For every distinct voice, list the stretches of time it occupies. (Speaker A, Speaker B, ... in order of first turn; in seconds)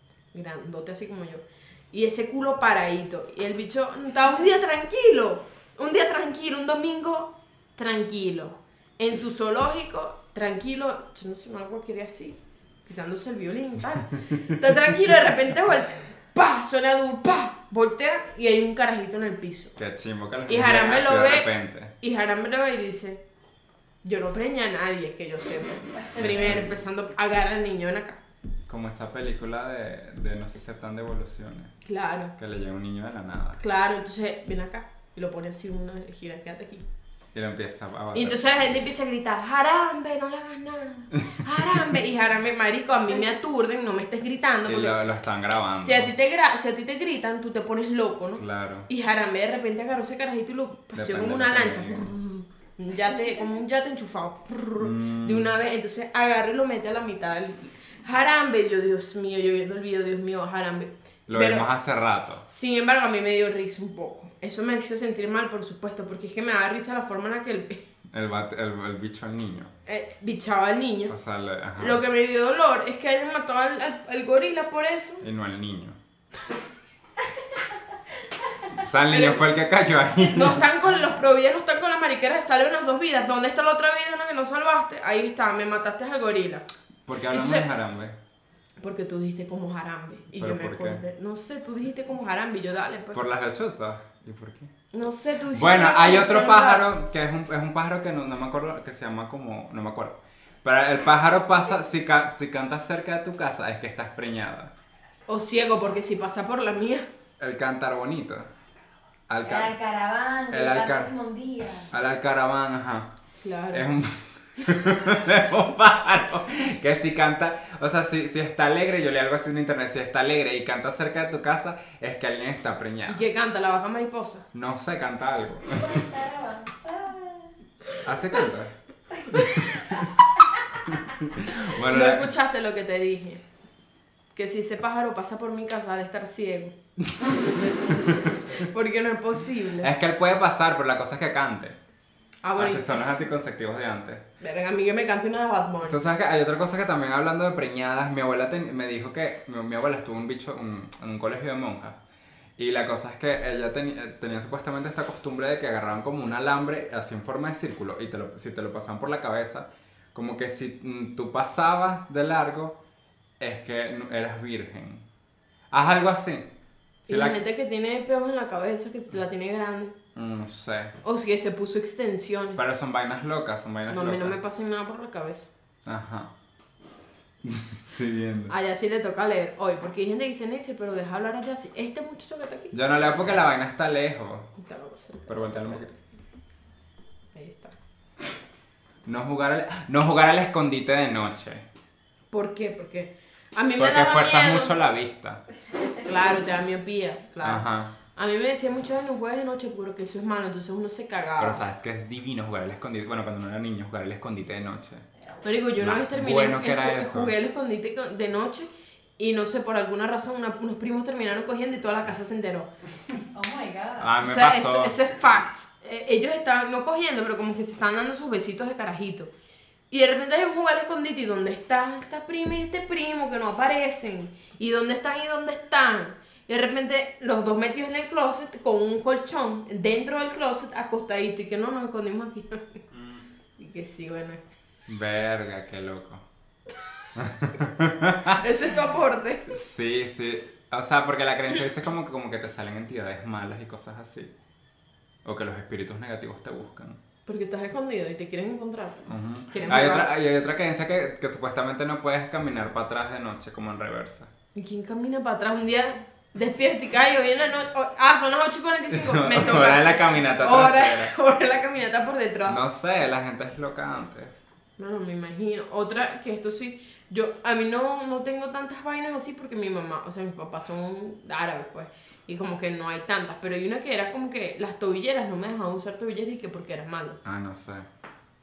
Speaker A: 0.3-19.8, 20.5-21.5, 22.0-23.2, 24.0-28.2, 31.9-32.4, 33.6-36.9, 38.1-45.0, 45.8-61.7, 62.5-67.9, 69.9-71.2, 71.8-75.3, 79.1-79.5, 80.2-86.7, 87.3-87.7, 88.8-93.2, 94.9-96.9, 105.3-107.1, 113.4-113.9, 123.1-124.5, 129.5-130.0, 131.8-133.4, 134.3-136.8, 138.5-139.9, 142.4-143.2, 144.4-146.0, 167.1-170.0, 171.0-172.6, 173.9-175.5, 178.5-182.8, 184.6-185.9, 187.3-187.8, 192.3-194.8, 196.0-201.6, 205.4-212.7, 214.2-219.3, 219.9-232.8, 233.6-234.4, 238.3-239.6, 247.3-250.1, 254.6-262.6, 264.8-277.2
Speaker B: 19.8-21.9, 26.2-26.8, 28.7-31.8, 32.4-33.6, 37.3-38.6, 44.6-46.1, 48.4-48.9, 50.9-52.1, 54.8-55.5, 61.3-62.4, 68.1-69.7, 71.1-72.0, 75.2-76.0, 78.7-80.6, 87.1-88.2, 90.4-91.0, 93.1-94.7, 95.5-104.7, 107.4-108.5, 109.3-109.7, 110.5-111.1, 111.9-113.1, 113.7-123.2, 124.5-126.1, 128.0-128.7, 129.3-130.2, 130.9-132.3, 137.0-138.5, 139.8-141.8, 142.6-144.2, 145.9-152.0, 152.6-162.8, 163.4-165.1, 165.7-166.5, 167.1-167.4, 170.2-170.9, 172.6-174.4, 175.8-176.3, 177.4-178.5, 182.7-184.5, 185.3-185.9, 189.1-191.7, 193.8-195.4, 197.4-197.9, 201.4-205.1, 205.8-207.3, 214.0-214.9, 232.9-233.2, 234.9-236.2, 237.2-238.4, 239.5-244.3, 245.2-247.0, 249.1-254.3, 258.9-261.1, 262.5-264.4, 277.2-277.9
Speaker C: 109.5-111.9, 125.7-127.5, 213.3-214.2